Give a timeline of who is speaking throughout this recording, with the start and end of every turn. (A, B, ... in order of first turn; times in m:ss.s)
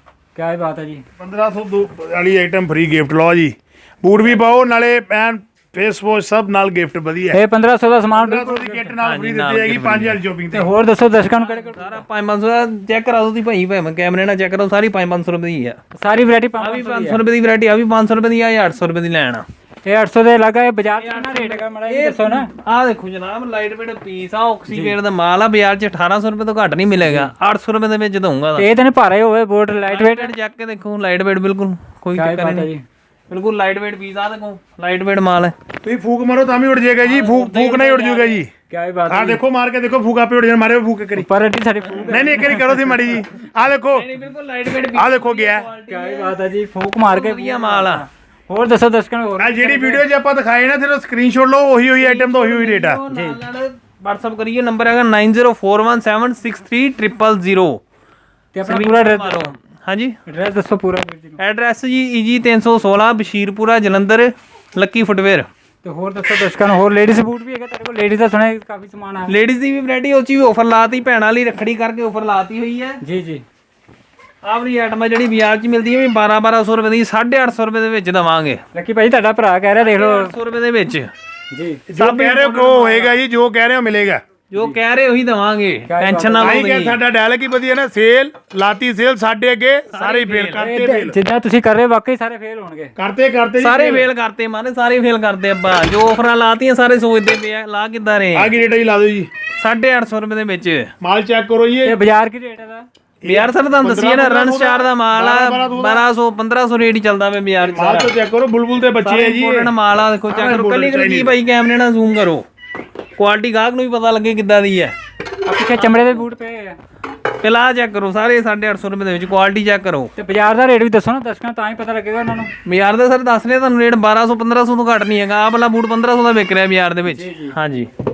0:00.4-0:01.0 A
0:01.2-0:07.4 B
0:07.3-0:08.9 A
0:08.2-0:10.7 B
0:09.0-0:10.2 C
0:10.5-0:12.0 A
0:11.4-0:15.8 C
0:15.9-0:17.2 A
0:16.6-0:19.4 C
0:19.8-0:22.5 A
0:21.0-0:28.7 C
0:24.7-0:25.0 A
0:27.0-0:27.3 A
0:28.6-0:30.3 A
0:29.9-0:32.7 C
0:32.2-0:32.8 A
0:33.3-0:35.5 C
0:35.8-0:38.5 B
0:37.0-0:38.4 C
0:38.7-0:39.4 A
0:39.1-0:41.3 B
0:41.2-0:43.1 A
0:42.0-0:44.1 B
0:43.9-0:46.4 C
0:44.9-0:45.7 B
0:45.9-0:50.0 A
0:47.0-0:48.0 C
0:49.4-0:53.0 B
0:52.0-0:57.8 C
0:53.1-0:53.4 A
0:58.5-0:59.5 A
0:58.6-1:00.2 C
1:00.3-1:01.4 A
1:01.4-1:05.5 C
1:05.8-1:09.3 A
1:09.3-1:13.0 C
1:13.0-1:13.4 A
1:14.4-1:18.6 C
1:18.7-1:20.3 A
1:19.8-1:21.1 C
1:21.5-1:21.8 A
1:21.9-1:24.2 B
1:22.0-1:23.2 C
1:24.5-1:27.0 C
1:25.9-1:26.7 A
1:26.4-1:31.2 B
1:29.9-1:30.6 C
1:30.6-1:32.9 A
1:33.0-1:34.1 B
1:33.6-1:38.5 C
1:38.3-1:39.3 B
1:39.6-1:40.9 C
1:41.0-1:42.0 B
1:41.8-1:42.8 A
1:43.2-1:46.0 B
1:43.2-1:48.1 C
1:47.6-1:49.7 B
1:49.0-1:52.4 C
1:50.3-1:51.3 B
1:53.2-1:54.9 C
1:55.4-1:56.8 A
1:55.8-1:56.2 C
1:57.4-2:00.1 C
2:00.2-2:02.5 A
2:02.6-2:07.9 C
2:07.0-2:07.6 A